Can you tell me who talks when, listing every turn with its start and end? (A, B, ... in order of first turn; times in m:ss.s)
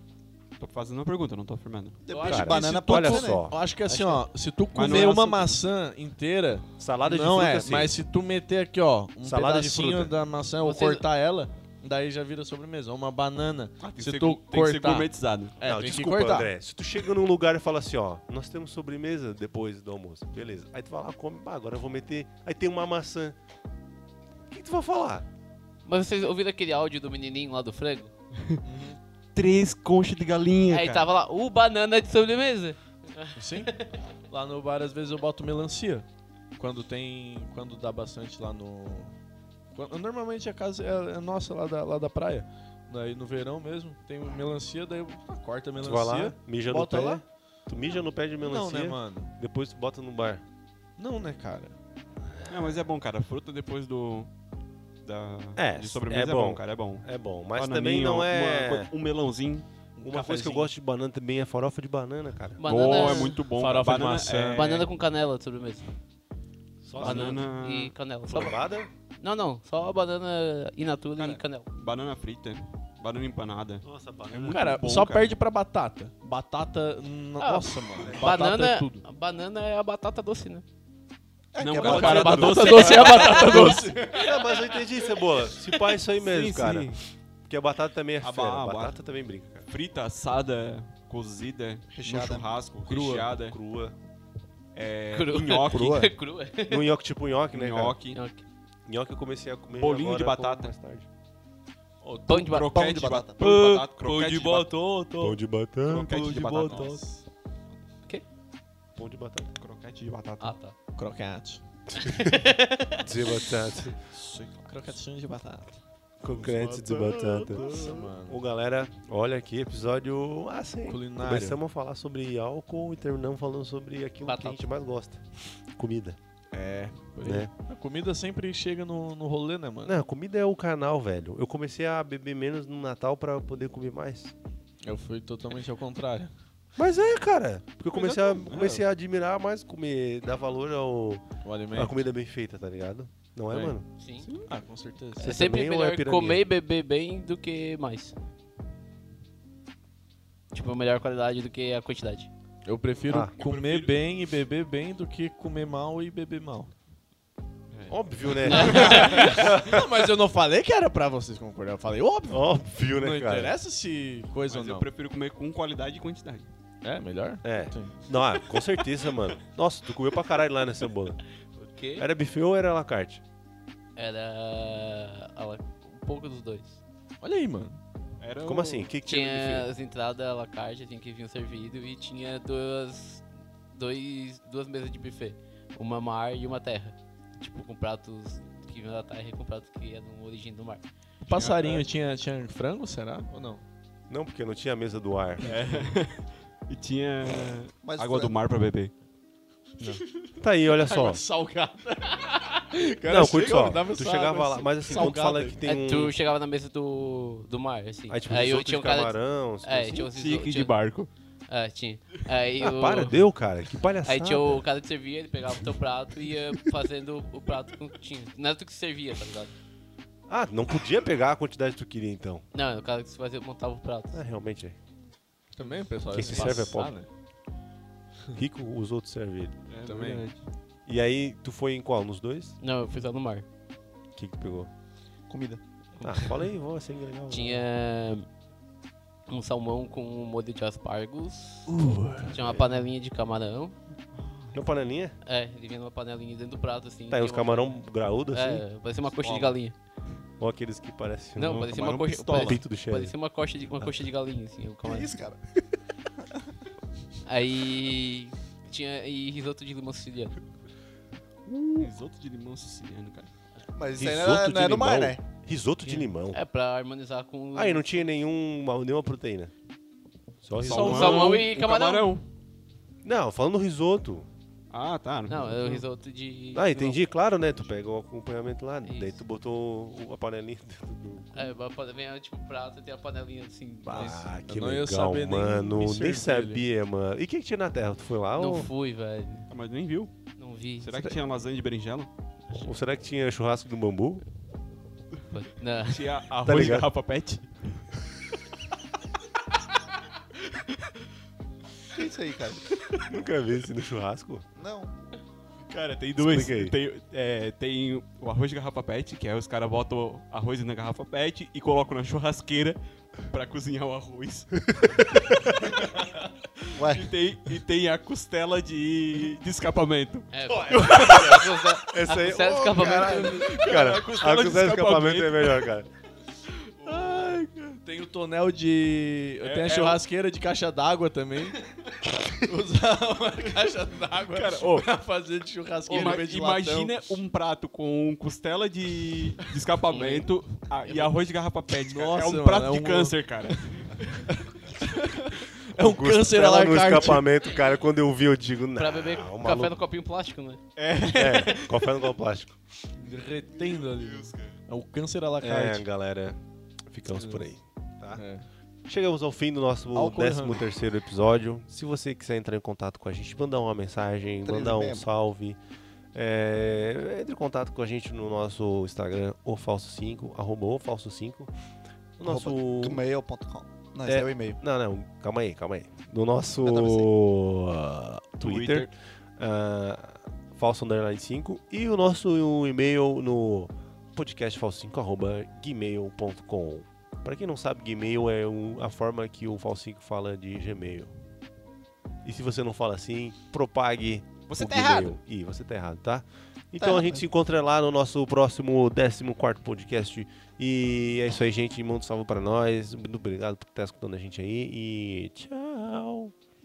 0:00.6-0:02.0 A
0:02.1-0:03.5 B
0:02.1-0:03.0 C
0:02.2-0:03.6 D
0:02.6-0:16.5 E
0:03.9-0:04.2 C
0:04.7-0:05.6 A
0:06.8-0:08.0 D
0:09.2-0:10.1 D
0:10.6-0:11.0 C
0:13.8-0:15.6 A
0:15.6-0:23.4 D
0:24.5-0:25.2 D
0:25.9-0:28.1 C
0:28.6-0:29.0 E
0:29.4-0:31.1 A
0:30.7-0:34.0 C
0:33.4-0:39.2 E
0:39.7-0:47.2 E
0:45.8-0:50.4 D
0:48.4-0:49.3 E
0:51.0-0:51.8 E
0:52.3-0:52.7 D
0:52.5-0:54.3 A
0:55.0-0:59.7 A
0:55.6-0:58.9 D
1:00.0-1:00.7 E
1:00.0-1:03.0 D
1:02.6-1:03.4 C
1:02.6-1:04.9 A
1:03.6-1:04.7 E
1:04.6-1:05.9 C
1:06.8-1:07.5 D
1:06.9-1:08.6 C
1:07.0-1:08.0 A
1:08.3-1:08.9 D
1:09.2-1:11.7 C
1:11.2-1:15.4 A
1:13.8-1:14.7 D
1:14.5-1:19.0 E
1:17.4-1:20.6 C
1:21.6-1:22.8 B
1:21.6-1:23.8 A
1:21.8-1:24.2 E
1:22.1-1:25.1 C
1:22.4-1:22.6 D
1:24.1-1:29.7 D
1:26.2-1:27.0 A
1:28.2-1:29.0 A
1:29.7-1:33.6 A
1:31.9-1:32.5 B
1:32.9-1:34.0 D
1:34.7-1:36.1 A
1:35.1-1:36.9 C
1:35.7-1:36.1 B
1:36.7-1:38.0 D
1:37.5-1:38.2 A
1:38.1-1:38.4 C
1:38.9-1:41.1 D
1:39.7-1:40.7 A
1:42.0-1:42.4 E
1:42.3-1:42.7 C
1:42.3-1:44.8 A
1:42.7-1:43.5 B
1:43.4-1:43.8 C
1:43.5-1:45.4 E
1:45.1-1:47.0 D
1:45.8-1:47.1 A
1:46.3-1:47.1 E
1:49.0-1:49.5 D
1:49.6-1:50.6 A
1:50.4-1:50.8 C
1:51.0-1:51.6 E
1:52.0-1:52.4 D
1:52.1-1:53.1 C
1:53.0-1:54.0 D
1:54.1-1:55.0 A
1:54.7-1:58.4 E
1:56.2-2:06.2 D
2:00.9-2:01.6 E
2:04.2-2:04.6 C
2:06.5-2:10.0 E
2:07.2-2:07.5 D
2:09.8-2:14.3 D
2:14.8-2:16.3 E
2:16.8-2:23.9 D
2:18.0-2:18.8 A
2:21.4-2:22.0 E
2:23.5-2:23.8 E
2:24.0-2:24.3 C
2:24.2-2:24.5 A
2:24.5-2:25.3 E
2:25.2-2:28.2 C
2:25.2-2:26.4 D
2:30.5-2:32.3 C
2:32.6-2:36.7 E
2:33.1-2:34.0 A
2:37.7-2:39.0 A
2:37.9-2:39.8 D
2:38.5-2:39.3 C
2:38.5-2:44.9 E
2:42.3-2:43.5 D
2:44.5-2:46.5 A
2:46.8-2:48.0 E
2:47.4-2:51.2 D
2:51.6-2:52.1 C
2:52.0-2:53.2 D
2:54.0-2:56.8 C
2:57.2-2:57.8 E
2:58.2-2:59.0 A
2:58.4-2:59.7 D
2:59.0-3:10.8 C
3:11.2-3:11.8 A
3:11.3-3:13.6 E
3:14.1-3:15.4 D
3:15.4-3:15.9 E
3:15.4-3:18.9 A
3:17.8-3:18.3 B
3:20.4-3:21.2 D
3:20.8-3:25.6 E
3:23.1-3:26.2 D
3:25.6-3:30.8 C
3:28.1-3:30.1 D
3:30.1-3:31.1 A
3:31.5-3:33.2 C
3:32.6-3:34.6 D
3:34.0-3:39.5 C
3:40.3-3:42.4 D
3:42.5-3:44.2 C
3:44.1-3:44.8 D
3:45.6-3:47.1 E
3:45.6-3:46.7 A
3:46.1-3:46.9 D
3:48.4-3:49.6 D
3:49.7-3:50.4 A
3:49.8-3:50.3 E
3:50.9-3:52.6 D
3:52.6-3:53.5 C
3:54.2-3:54.7 D
3:55.3-3:55.6 B
3:56.0-3:57.7 D
3:57.3-3:58.3 C
3:59.3-4:01.8 C
4:01.7-4:02.3 E
4:02.3-4:03.8 C
4:04.1-4:04.6 A
4:04.5-4:05.2 D
4:05.2-4:09.8 C
4:07.1-4:08.6 D
4:09.2-4:09.6 A
4:10.4-4:11.7 D
4:11.4-4:15.1 C
4:11.4-4:12.6 A
4:12.4-4:13.2 D
4:13.8-4:14.1 D
4:14.8-4:15.4 B
4:17.3-4:20.4 C
4:21.5-4:21.9 D
4:21.7-4:23.3 A
4:23.8-4:25.2 B
4:24.0-4:26.4 D
4:25.8-4:28.0 C
4:27.5-4:29.5 D
4:30.4-4:31.4 D
4:30.6-4:32.2 A
4:30.6-4:32.2 C
4:33.0-4:34.3 D
4:34.7-4:35.8 A
4:35.3-4:37.0 C
4:36.5-4:41.5 D
4:38.8-4:39.2 C
4:41.3-4:44.3 C
4:43.8-4:48.7 D
4:44.5-4:46.6 E
4:48.4-4:49.5 C
4:49.5-4:50.1 A
4:50.4-4:51.1 C
4:50.8-4:52.1 A
4:52.5-4:54.2 D
4:55.3-4:56.1 C
4:55.8-4:57.9 A
4:56.4-4:56.9 D
5:01.9-5:02.7 B
5:03.0-5:04.5 D
5:04.6-5:04.9 B
5:05.6-5:21.5 A
5:06.2-5:06.8 D
5:15.1-5:15.7 D
5:16.8-5:17.2 B
5:20.3-5:23.6 C
5:20.5-5:25.9 D
5:23.3-5:25.7 A
5:26.8-5:27.5 A
5:26.8-5:31.6 E
5:29.4-5:30.0 A
5:32.4-5:36.9 E
5:34.3-5:34.9 A
5:35.9-5:44.3 A
5:39.9-5:40.3 C
5:41.7-5:43.3 E
5:44.3-5:47.3 E
5:45.8-5:49.8 D
5:48.8-5:50.6 C
5:50.8-5:51.8 A
5:51.0-5:52.5 D
5:53.0-5:55.9 E
5:53.6-5:54.6 A
5:55.4-5:58.2 D
5:57.1-5:57.4 E
5:58.1-5:58.5 E
5:58.9-6:05.6 D
5:59.9-6:00.6 E
6:04.5-6:05.0 B
6:06.1-6:11.5 D
6:12.2-6:13.0 D
6:12.2-6:14.6 B
6:14.0-6:31.1 D
6:16.6-6:17.1 B
6:18.4-6:18.9 A
6:32.2-6:46.3 D
6:34.5-6:35.2 A
6:36.8-6:37.2 B